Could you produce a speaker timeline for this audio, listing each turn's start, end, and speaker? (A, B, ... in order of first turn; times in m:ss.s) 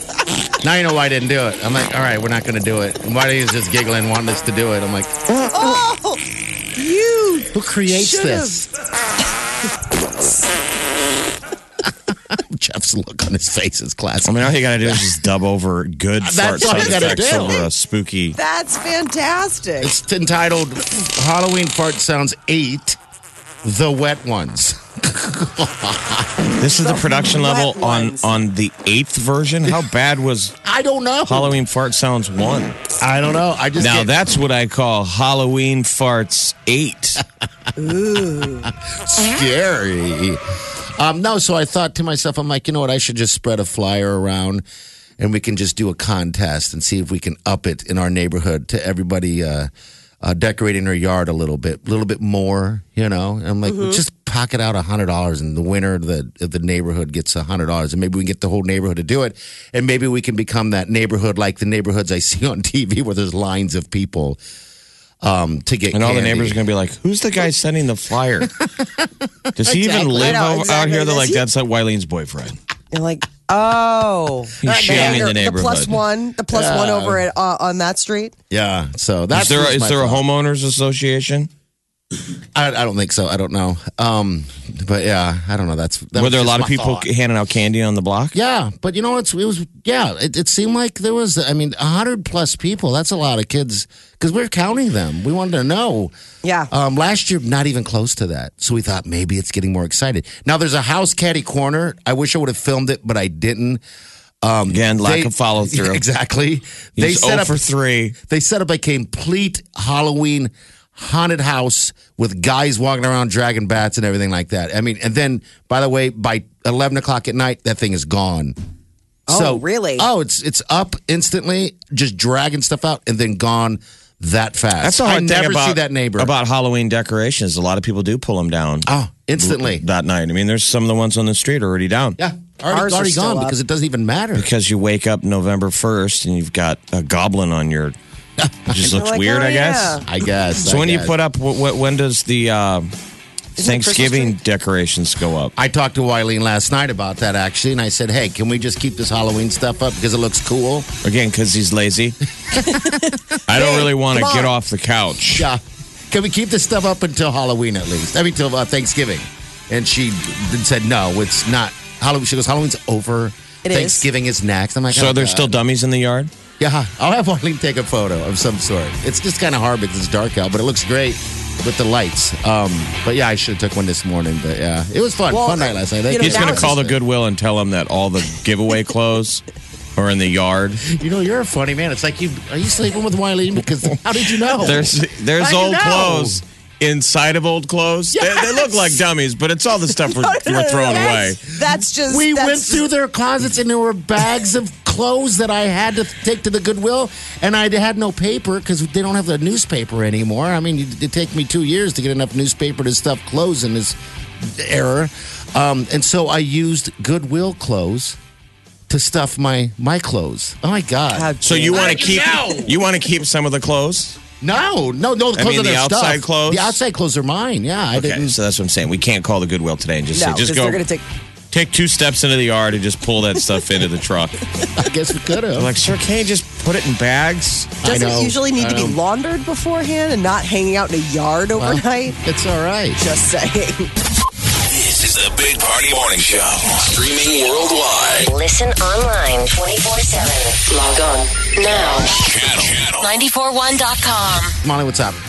0:00.6-0:05.1 A
0:05.5-0:06.2 B
0:06.8-0:08.6 B
0:07.5-0:08.7 A
0:11.8-0:15.2 A
0:14.2-0:18.4 C
0:16.2-0:17.7 A
0:16.9-0:17.3 B
0:18.4-0:19.9 B
0:19.8-0:23.0 A
0:23.6-0:26.5 A
0:26.6-0:30.6 C
0:26.8-0:28.4 B
0:30.6-0:31.6 A
0:31.3-0:32.8 C
0:33.0-0:34.1 A
0:33.8-0:37.2 C
0:37.8-0:38.7 B
0:38.6-0:40.4 A
0:41.0-0:44.6 A
0:45.2-0:49.7 A
0:50.2-1:04.4 A
0:53.7-0:54.0 B
1:05.2-1:06.6 A
1:05.9-1:08.5 C
1:09.5-1:10.3 A
1:09.6-1:12.6 C
1:09.8-1:11.4 B
1:12.9-1:18.4 B
1:14.6-1:16.0 C
1:14.8-1:15.3 A
1:16.5-1:17.3 A
1:18.5-1:20.2 A
1:19.3-1:21.5 C
1:22.5-1:27.1 A
1:26.2-1:28.4 C
1:28.3-1:36.1 A
1:36.4-1:36.7 B
1:36.7-1:43.8 A
1:44.4-1:58.6 A
1:44.7-1:46.0 C
1:47.0-1:48.2 C
1:59.3-2:00.1 B
1:59.3-2:06.3 A
2:04.8-2:12.2 C
2:08.8-2:09.8 A
2:12.2-2:14.5 A
2:12.7-2:13.6 B
2:14.4-2:18.0 C
2:18.4-2:18.9 A
2:18.7-2:20.0 C
2:18.8-2:20.0 B
2:20.0-2:21.2 A
2:20.6-2:22.9 C
2:23.6-2:24.4 B
2:23.6-2:25.6 C
2:25.6-2:30.9 A
2:31.0-2:32.2 C
2:32.5-2:33.0 A
2:32.6-2:34.5 B
2:33.5-2:35.5 C
2:35.3-2:45.6 A
2:43.6-2:44.1 B
2:44.9-2:46.3 C
2:46.6-2:57.0 A
2:55.3-2:56.7 B
2:56.2-2:59.4 C
3:00.0-3:00.9 C
3:00.9-3:06.4 A
3:04.5-3:11.4 C
3:10.1-3:12.8 B
3:12.1-3:28.2 A
3:28.9-3:32.7 A
3:31.1-3:32.6 B
3:31.4-3:34.2 C
3:34.4-3:38.4 A
3:35.4-3:36.8 C
3:38.0-3:40.8 C
3:40.1-3:41.0 B
3:41.5-3:44.4 C
3:44.8-3:45.7 A
3:45.6-3:47.8 C
3:47.8-3:49.0 A
3:47.8-3:52.2 B
3:51.6-3:53.0 A
3:53.0-3:53.9 B
3:54.6-3:58.3 D
3:58.3-4:02.3 E
4:02.0-4:03.2 D
4:03.0-4:04.6 E
4:04.6-4:05.2 A